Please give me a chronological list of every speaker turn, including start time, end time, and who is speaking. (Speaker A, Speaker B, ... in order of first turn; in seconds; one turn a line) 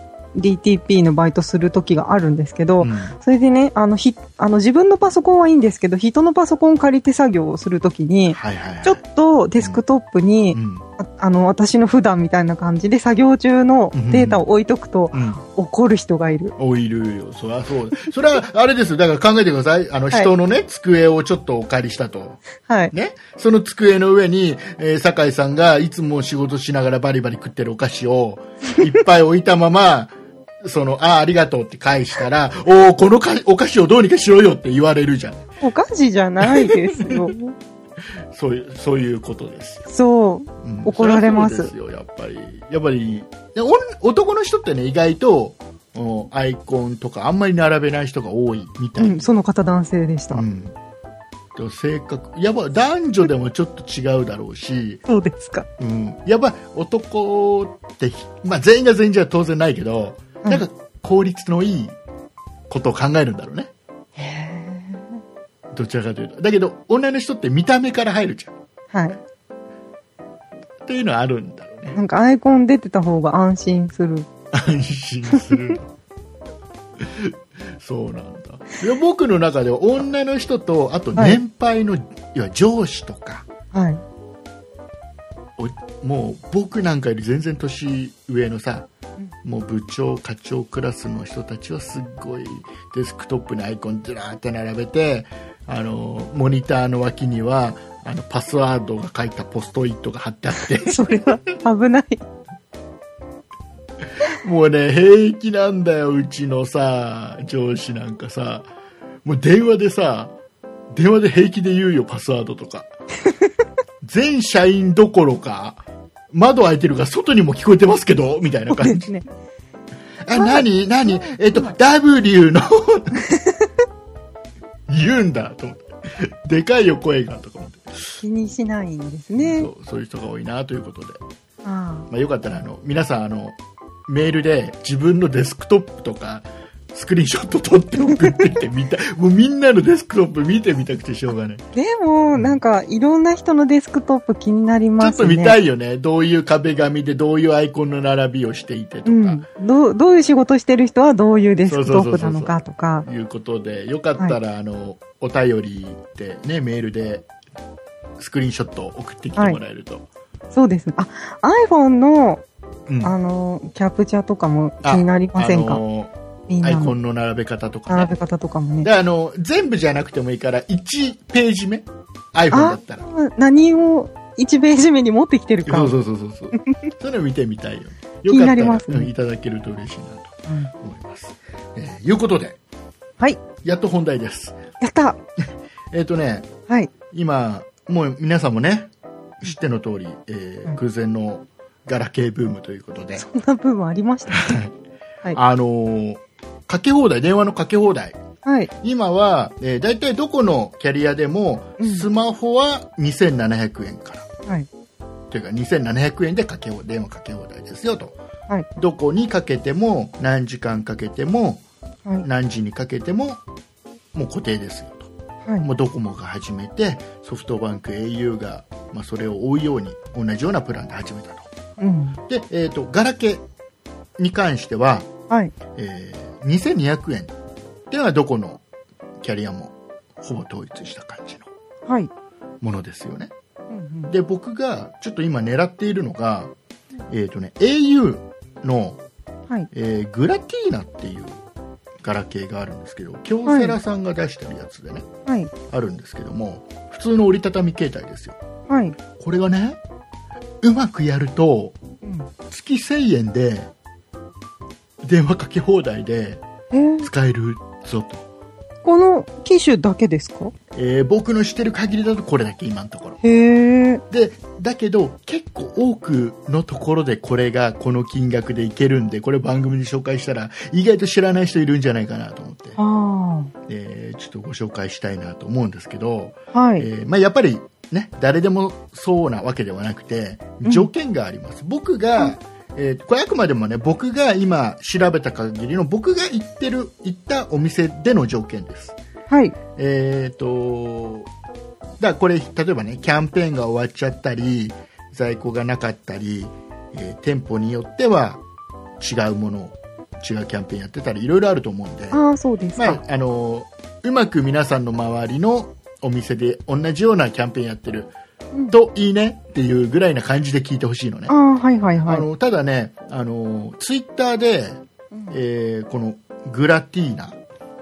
Speaker A: 0.3-16.5
Speaker B: 2.8-3.2
Speaker B: 8.3-9.0
Speaker B: 10.5-10.8
Speaker B: 13.9-14.4
Speaker B: 15.1-15.4
Speaker B: 16.6-35.5
Speaker A: 22.6-22.9
Speaker A: 35.6-37.5
Speaker B: 36.4-37.3
Speaker B: 38.3-39.8
Speaker A: 39.9-41.7
Speaker B: 40.6-49.3
Speaker A: 49.0-50.4
Speaker B: 50.3-50.8
Speaker B: 51.5-55.0
Speaker A: 55.0-55.7
Speaker B: 55.8-62.0
Speaker B: 62.7-63.7
Speaker A: 64.2-65.2
Speaker B: 65.7-68.5
Speaker A: 68.9-69.2
Speaker B: 70.8-72.0
Speaker A: 71.9-74.3
Speaker B: 74.5-75.9
Speaker A: 75.3-75.6
Speaker B: 77.0-83.5
Speaker A: 83.7-84.0
Speaker B: 85.6-88.9
Speaker B: 89.4-101.3
Speaker A: 100.8-102.2
Speaker B: 104.2-108.7
Speaker B: 109.2-110.3
Speaker B: 110.9-112.9
Speaker B: 114.0-119.1
Speaker A: 118.7-119.3
Speaker B: 120.2-123.2
Speaker A: 120.3-121.7
Speaker A: 123.2-123.6
Speaker B: 124.9-128.1
Speaker A: 128.2-129.7
Speaker B: 129.3-131.2
Speaker A: 131.6-132.1
Speaker B: 132.1-141.7
Speaker A: 141.7-145.6
Speaker B: 142.3-142.6
Speaker B: 145.0-149.4
Speaker A: 149.1-153.1
Speaker B: 151.6-157.3
Speaker B: 158.2-160.1
Speaker A: 160.5-162.4
Speaker B: 162.9-163.1
Speaker A: 163.0-165.8
Speaker B: 164.8-168.2
Speaker A: 166.5-166.9
Speaker A: 167.9-168.9
Speaker B: 168.8-173.1
Speaker A: 172.5-175.9
Speaker B: 175.6-182.6
Speaker A: 178.3-179.1
Speaker A: 180.5-180.7
Speaker B: 183.6-184.6
Speaker A: 184.8-185.2
Speaker B: 185.9-186.5
Speaker B: 187.1-193.2
Speaker A: 193.2-194.6
Speaker B: 194.3-194.7
Speaker B: 195.3-198.2
Speaker A: 198.4-198.7
Speaker B: 198.8-204.3
Speaker A: 201.8-202.1
Speaker B: 205.3-208.2
Speaker B: 208.8-211.6
Speaker B: 212.2-213.4
Speaker B: 214.1-215.1
Speaker B: 215.6-221.5
Speaker A: 221.8-222.2
Speaker B: 222.3-223.4
Speaker B: 224.2-225.1
Speaker B: 225.7-227.3
Speaker B: 227.9-228.6
Speaker B: 229.2-231.5
Speaker B: 232.6-233.3
Speaker A: 233.7-234.1
Speaker B: 234.1-236.5
Speaker B: 237.1-239.0
Speaker B: 239.7-241.4
Speaker B: 242.0-245.1
Speaker A: 243.4-243.8
Speaker A: 245.2-245.5
Speaker B: 245.7-248.4
Speaker A: 248.7-248.9
Speaker B: 249.2-249.8
Speaker B: 250.6-251.8
Speaker A: 252.0-252.3
Speaker B: 252.5-253.7
Speaker B: 255.0-256.4
Speaker A: 256.7-257.1
Speaker B: 257.0-258.2
Speaker A: 258.8-260.5
Speaker B: 260.7-263.2
Speaker A: 263.2-264.0
Speaker B: 264.1-272.8
Speaker A: 272.8-273.5
Speaker B: 273.7-289.0
Speaker A: 276.5-276.9
Speaker A: 289.3-289.6
Speaker B: 289.8-291.3
Speaker B: 292.0-298.4
Speaker B: 299.0-302.2
Speaker A: 302.1-303.0
Speaker B: 302.8-308.1
Speaker B: 308.7-311.3
Speaker A: 311.3-312.2
Speaker B: 312.0-317.4